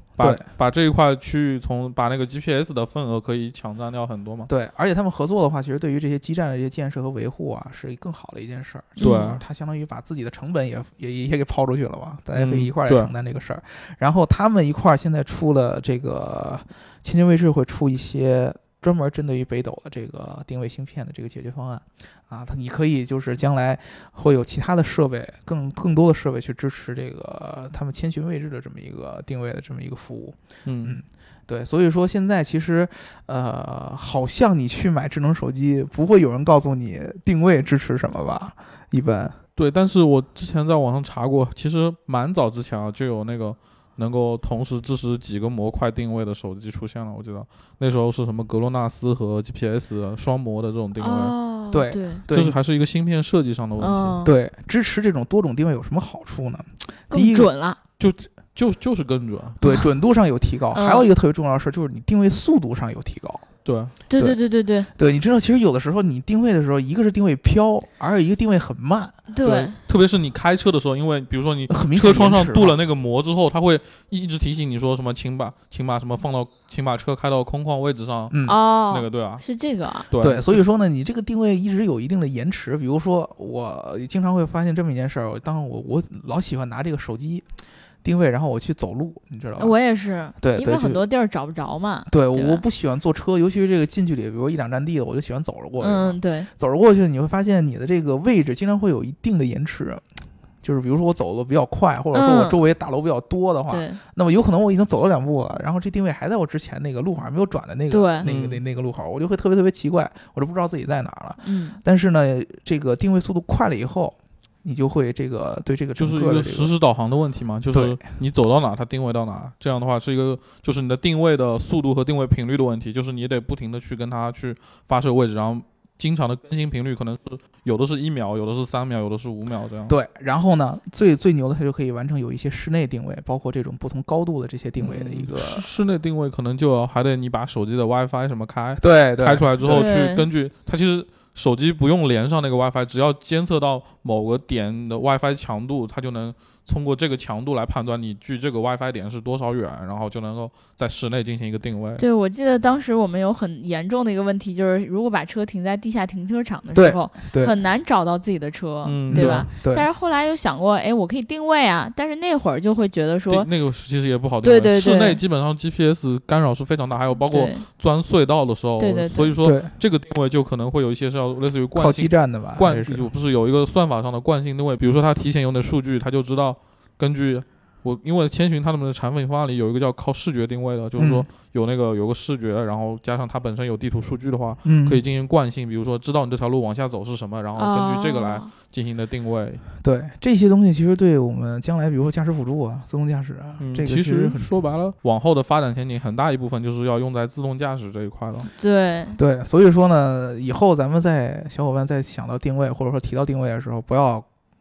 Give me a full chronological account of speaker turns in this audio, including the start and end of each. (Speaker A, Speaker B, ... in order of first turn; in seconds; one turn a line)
Speaker A: 0.2-4.5
Speaker B: 4.5-39.4
Speaker C: 9.0-9.3
Speaker A: 9.0-9.4
Speaker A: 12.3-13.1
Speaker A: 30.6-31.0
Speaker A: 39.6-51.4
Speaker C: 51.0-52.2
Speaker B: 51.7-52.6
Speaker A: 52.3-54.2
Speaker C: 53.8-54.3
Speaker B: 54.2-57.5
Speaker C: 57.1-57.8
Speaker A: 58.0-59.6
Speaker B: 59.6-63.5
Speaker C: 60.7-61.1
Speaker A: 63.6-64.0
Speaker C: 64.1-64.9
Speaker B: 64.9-69.2
Speaker C: 69.3-69.8
Speaker A: 69.4-78.4
Speaker B: 71.7-72.8
Speaker B: 78.3-78.6
Speaker C: 78.5-80.1
Speaker A: 78.9-79.4
Speaker A: 80.1-80.6
Speaker B: 80.2-87.5
Speaker B: 88.0-89.8
Speaker C: 89.6-92.6
Speaker B: 90.4-91.0
Speaker B: 92.1-100.0
Speaker C: 95.8-96.5
Speaker B: 100.6-116.7
Speaker C: 102.1-102.6
Speaker C: 103.7-104.0
Speaker C: 107.9-108.3
Speaker A: 108.2-108.6
Speaker C: 111.4-111.8
Speaker A: 116.0-129.9
Speaker B: 117.7-118.0
Speaker B: 129.9-135.7
Speaker A: 134.8-152.0
Speaker B: 138.8-139.9
Speaker C: 139.7-140.3
Speaker C: 152.0-163.5
Speaker B: 156.7-157.5
Speaker A: 158.8-159.5
Speaker B: 159.1-159.9
Speaker A: 163.3-189.6
Speaker C: 164.4-165.2
Speaker C: 167.3-167.7
Speaker C: 168.8-169.3
Speaker B: 169.4-169.7
Speaker B: 171.8-173.1
Speaker B: 181.0-181.3
Speaker B: 184.6-185.0
Speaker C: 187.6-188.5
Speaker B: 189.8-194.4
Speaker A: 193.6-198.5
Speaker C: 198.6-199.2
Speaker B: 199.2-204.3